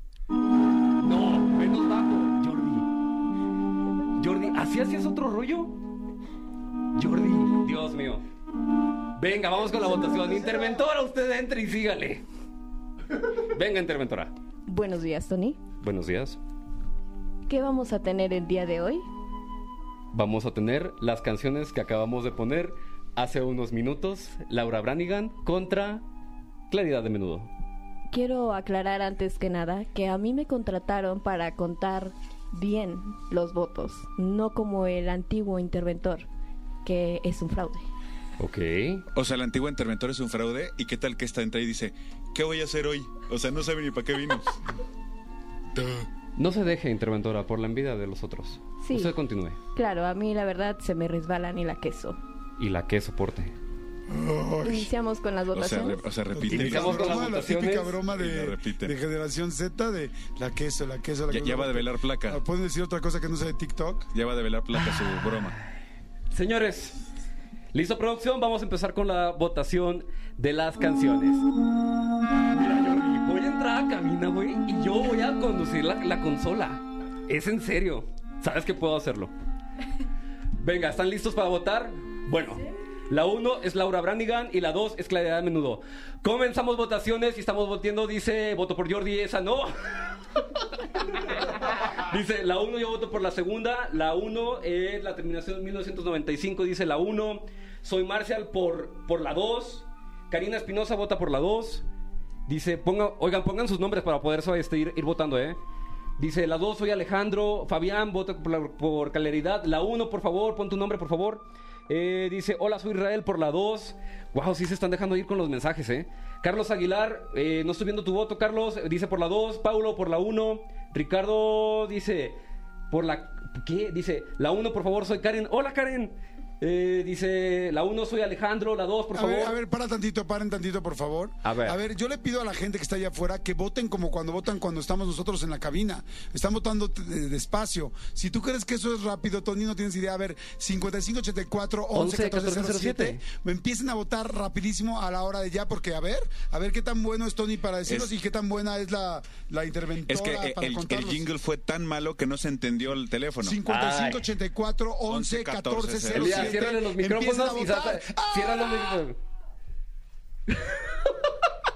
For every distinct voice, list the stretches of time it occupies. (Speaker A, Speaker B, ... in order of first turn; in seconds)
Speaker A: 1.0-2.9, 4.2-5.8, 7.0-8.2, 9.2-12.2, 13.3-14.3, 15.8-16.4, 20.1-26.0, 26.7-27.5, 38.4-39.0, 46.4-49.6, 52.6-53.5, 56.5-58.0, 66.3-67.0, 67.7-71.5, 72.5-79.3, 80.6-89.9, 91.1-101.8, 102.5-105.6, 106.2-122.4, 122.9-129.6, 131.4-131.8, 141.9-143.2, 153.7-154.3, 156.1-159.2, 160.5-161.2
Speaker B: 14.7-15.6, 17.5-19.1, 28.1-36.3, 36.8-37.9, 48.8-49.1, 49.8-52.2, 54.6-56.0
Speaker C: 39.1-44.6, 55.5-57.5, 58.1-59.0, 61.3-62.4, 64.1-65.5, 150.1-153.6, 155.1-156.7
Speaker D: 54.1-54.9, 56.3-64.1, 129.1-151.3, 153.4-159.0